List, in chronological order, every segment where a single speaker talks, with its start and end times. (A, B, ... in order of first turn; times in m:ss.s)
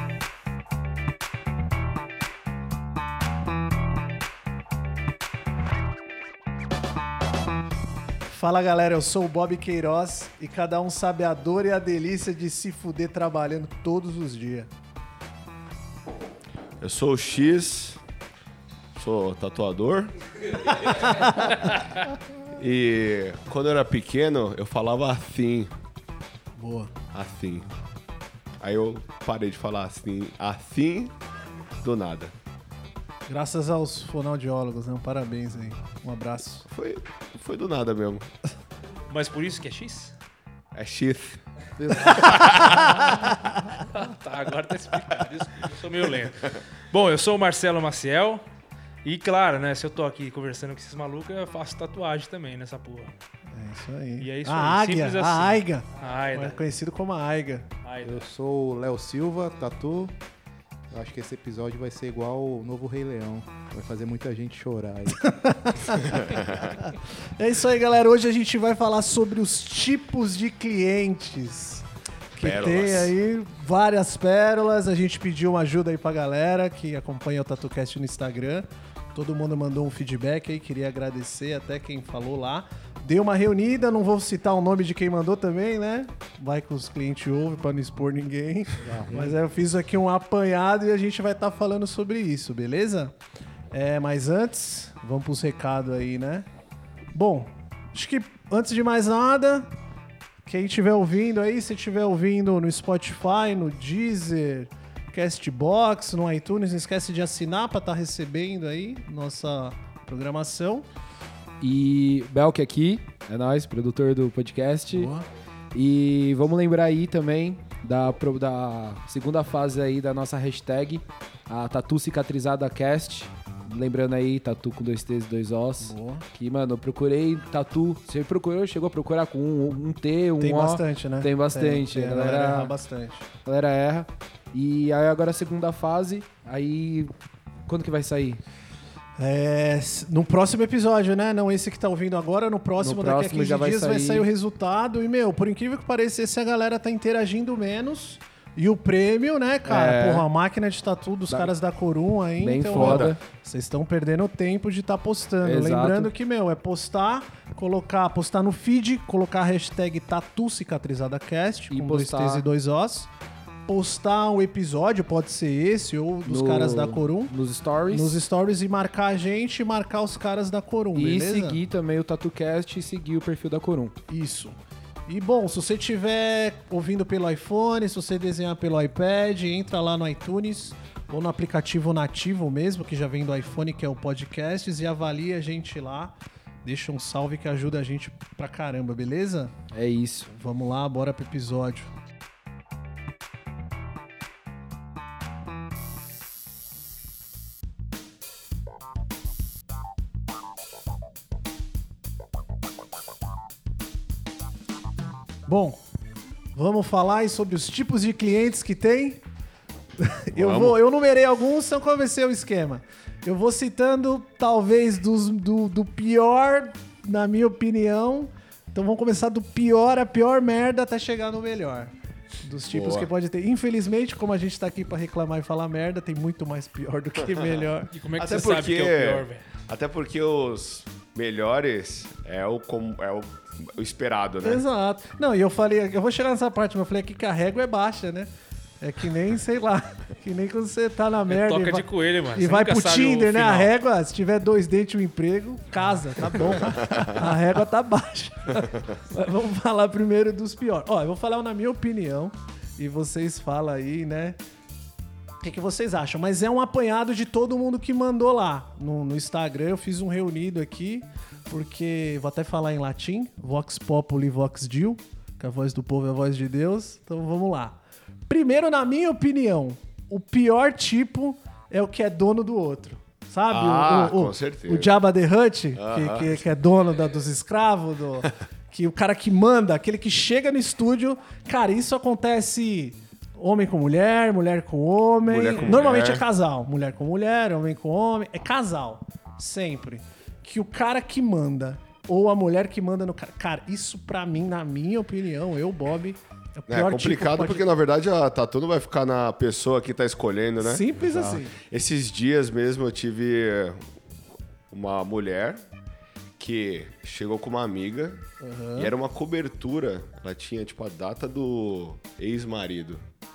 0:08.3-0:14.7 A
0:16.8-0:18.0 B
0:19.0-0:21.9 B
0:20.8-0:21.6 A
0:22.5-0:25.7 B
0:26.6-0:26.9 A
0:27.1-0:27.7 B
0:28.6-0:31.1 B
0:31.8-0:32.3 B
0:33.3-0:36.7 A
0:36.7-0:38.3 B
0:39.1-0:40.1 C
0:40.7-0:41.4 B
0:42.0-0:43.0 B
0:43.1-0:43.3 A
0:43.8-0:48.4 C
0:49.0-0:53.2 C
0:53.5-0:57.7 A
0:54.2-0:56.6 C
0:57.8-0:58.3 C
0:58.0-1:00.2 D
1:00.9-1:05.3 D
1:05.1-1:11.8 A
1:06.0-1:06.8 B
1:12.4-1:33.1 A
1:12.4-1:13.1 B
1:28.8-1:29.4 D
1:33.7-1:36.5 A
1:37.1-1:39.7 A
1:40.4-1:50.9 A
1:51.6-1:55.1 E
1:54.9-1:55.3 A
1:55.7-2:12.7 E
2:05.8-2:06.3 A
2:10.4-2:13.3 A
2:13.4-2:17.1 E
2:17.7-2:18.4 E
2:19.2-2:43.1 A
2:22.8-2:24.3 E
2:29.7-2:30.3 E
2:32.4-2:33.2 E
2:32.8-2:33.1 B
2:35.4-2:36.1 E
2:41.7-2:42.4 E
2:43.7-2:47.3 A
2:46.3-2:48.2 E
2:47.9-2:51.6 A
2:51.0-2:54.0 E
2:54.1-2:54.6 A
2:55.1-3:09.5 A
3:09.7-3:10.3 E
3:10.3-3:11.9 A
3:25.5-3:25.8 A
3:26.5-3:29.2 A
3:30.0-3:41.9 A
3:30.4-3:30.8 B
3:42.4-3:47.9 A
3:42.7-3:43.1 B
3:47.3-3:47.6 B
3:47.9-3:49.4 C
3:48.2-3:54.6 B
3:54.4-3:58.3 A
3:58.8-4:14.4 A
4:01.3-4:03.7 C
4:06.4-4:07.2 B
4:15.4-4:27.8 A
4:28.3-4:57.7 A
4:33.5-4:34.9 B
4:35.8-4:36.4 B
4:45.2-4:46.2 B
4:56.7-5:03.9 B
5:00.6-5:01.6 A
5:04.7-5:05.6 B
5:06.4-5:08.2 B
5:08.4-5:08.9 A
5:08.8-5:13.0 B